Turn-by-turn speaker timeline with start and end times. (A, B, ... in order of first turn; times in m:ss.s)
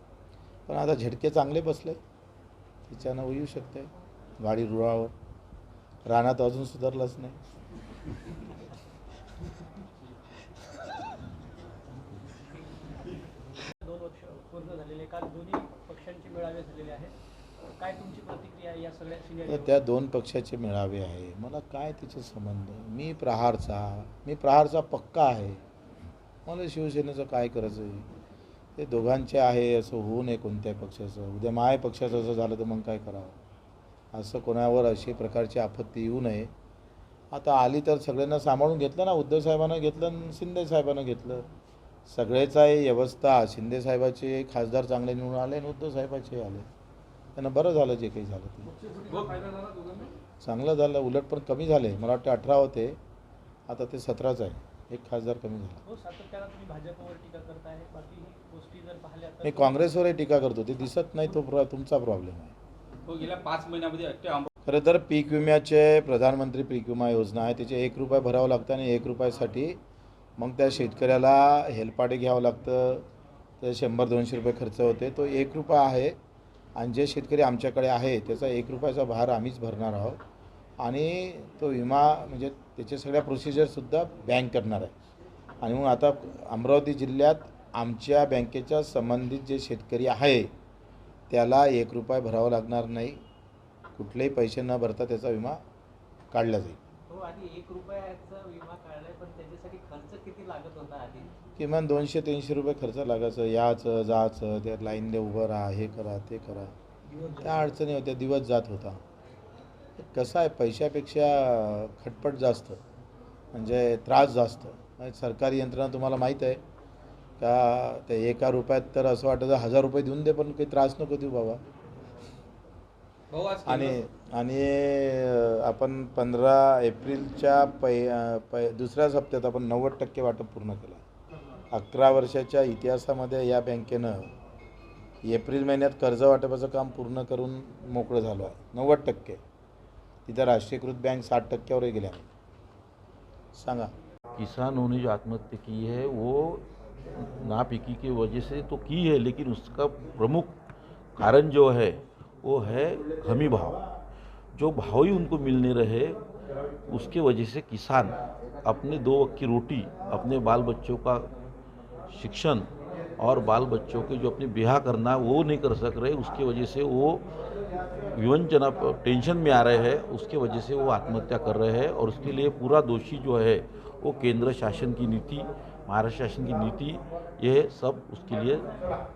0:00.7-0:02.0 A
0:02.9-0:05.1 A
0:06.1-0:07.4 A
0:13.8-0:17.1 B
0:17.8-0:19.8 B
0:19.5-0:25.6 A
0:26.5-0:28.1 A
0:28.8-0:33.4 A
0:34.1-0:36.5 A
0:37.3-0:41.5 A
0:42.1-0:46.7 A
0:47.4-0:48.7 A
0:48.9-0:50.1 C
0:50.4-0:53.0 A
0:53.7-0:55.8 A
0:55.9-0:59.8 B
0:59.4-1:02.5 A
1:03.1-1:04.5 C
1:04.6-1:09.8 A
1:10.4-1:13.1 A
1:13.6-1:16.2 A
1:16.8-1:20.2 A
1:20.8-1:24.9 A
1:25.6-1:30.5 A
1:31.3-1:33.2 A
1:34.0-1:35.6 A
1:36.3-1:36.8 A
1:37.1-1:41.3 D
1:41.6-1:46.7 A
1:47.4-1:49.0 A
1:50.0-1:52.8 A
1:53.5-1:56.6 A
1:57.4-2:01.6 A
2:03.3-2:04.0 C
2:03.7-2:11.0 A
2:11.7-2:14.3 A
2:15.2-2:19.4 A
2:20.3-2:22.3 A
2:23.5-2:23.9 A
2:24.4-2:26.7 E
2:27.2-2:30.5 E
2:31.2-2:33.9 E
2:34.5-2:36.2 E
2:36.9-2:41.3 E
2:42.1-2:47.3 E
2:48.1-2:58.7 E